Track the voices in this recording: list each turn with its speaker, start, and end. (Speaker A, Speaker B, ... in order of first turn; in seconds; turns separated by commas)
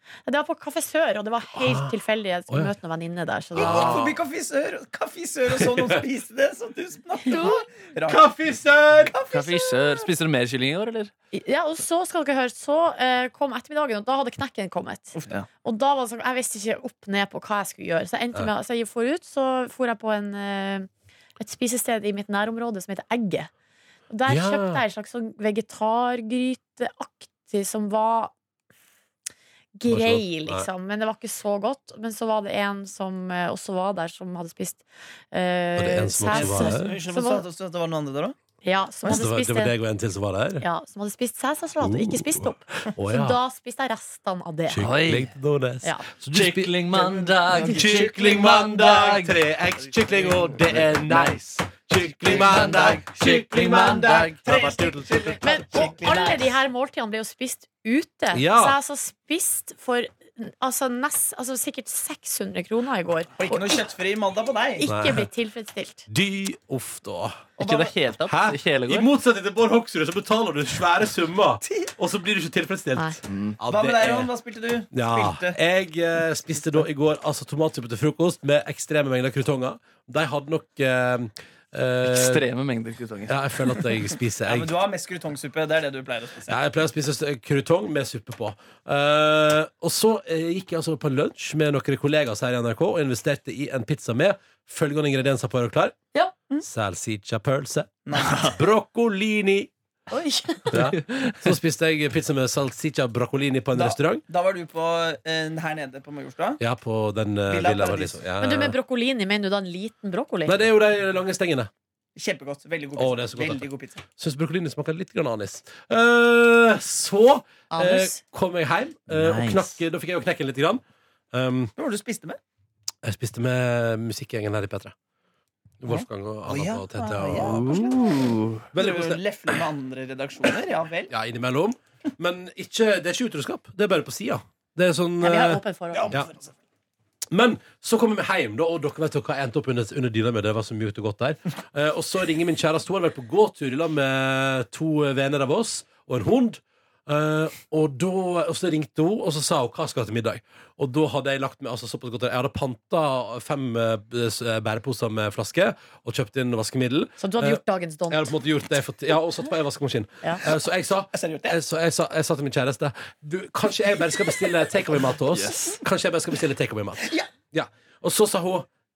Speaker A: 0.3-3.9, Speaker B: 1.6-1.9, Speaker B: 3.5-4.2, Speaker C: 3.6-8.3, Speaker B: 5.6-6.0, Speaker A: 7.2-7.6, Speaker B: 8.1-9.2, Speaker C: 9.1-10.1, Speaker D: 9.3-11.1, Speaker A: 11.3-23.5, Speaker C: 15.1-15.4, Speaker A: 24.1-28.3, Speaker B: 24.3-24.8, Speaker A: 29.8-37.4, Speaker B: 29.9-30.6, Speaker B: 35.8-37.0, Speaker C: 36.3-38.4, Speaker A: 38.6-39.8, Speaker B: 39.0-40.6, Speaker A: 40.6-44.8, Speaker B: 41.8-43.4, Speaker B: 44.7-46.8, Speaker D: 44.8-45.3, Speaker D: 46.3-49.4, Speaker C: 46.9-48.3, Speaker B: 47.6-55.8, Speaker C: 50.1-50.4, Speaker D: 51.0-51.6, Speaker D: 52.2-54.4, Speaker C: 54.4-56.6, Speaker A: 55.4-63.9, Speaker B: 58.3-58.8, Speaker C: 63.4-64.9, Speaker A: 64.8-66.1, Speaker B: 64.9-65.3, Speaker B: 66.1-74.3, Speaker D: 67.6-69.1, Speaker C: 71.6-71.9, Speaker D: 73.3-73.6, Speaker C: 73.7-75.6, Speaker B: 74.9-82.4, Speaker D: 82.0-83.9, Speaker B: 83.3-84.7, Speaker C: 84.5-86.6, Speaker B: 86.5-96.0, Speaker B: 96.6-99.7, Speaker C: 98.1-98.6, Speaker A: 100.1-100.7, Speaker B: 100.7-104.2, Speaker D: 101.0-101.4, Speaker C: 103.7-106.6, Speaker B: 106.6-108.8, Speaker C: 107.5-108.2, Speaker A: 108.4-110.6, Speaker B: 110.5-111.7, Speaker C: 112.2-114.0, Speaker B: 113.0-120.8, Speaker A: 117.7-118.2, Speaker D: 119.1-119.8, Speaker B: 121.3-121.7, Speaker C: 121.8-122.4, Speaker B: 123.0-124.9, Speaker B: 125.8-128.1, Speaker C: 125.9-128.2, Speaker D: 127.3-128.6, Speaker B: 128.7-129.6, Speaker C: 128.8-131.1, Speaker B: 131.1-136.3, Speaker A: 135.2-136.1, Speaker C: 135.9-136.6, Speaker B: 137.3-168.7, Speaker A: 157.2-158.3, Speaker C: 161.1-161.6, Speaker D: 165.3-165.7, Speaker C: 167.0-167.3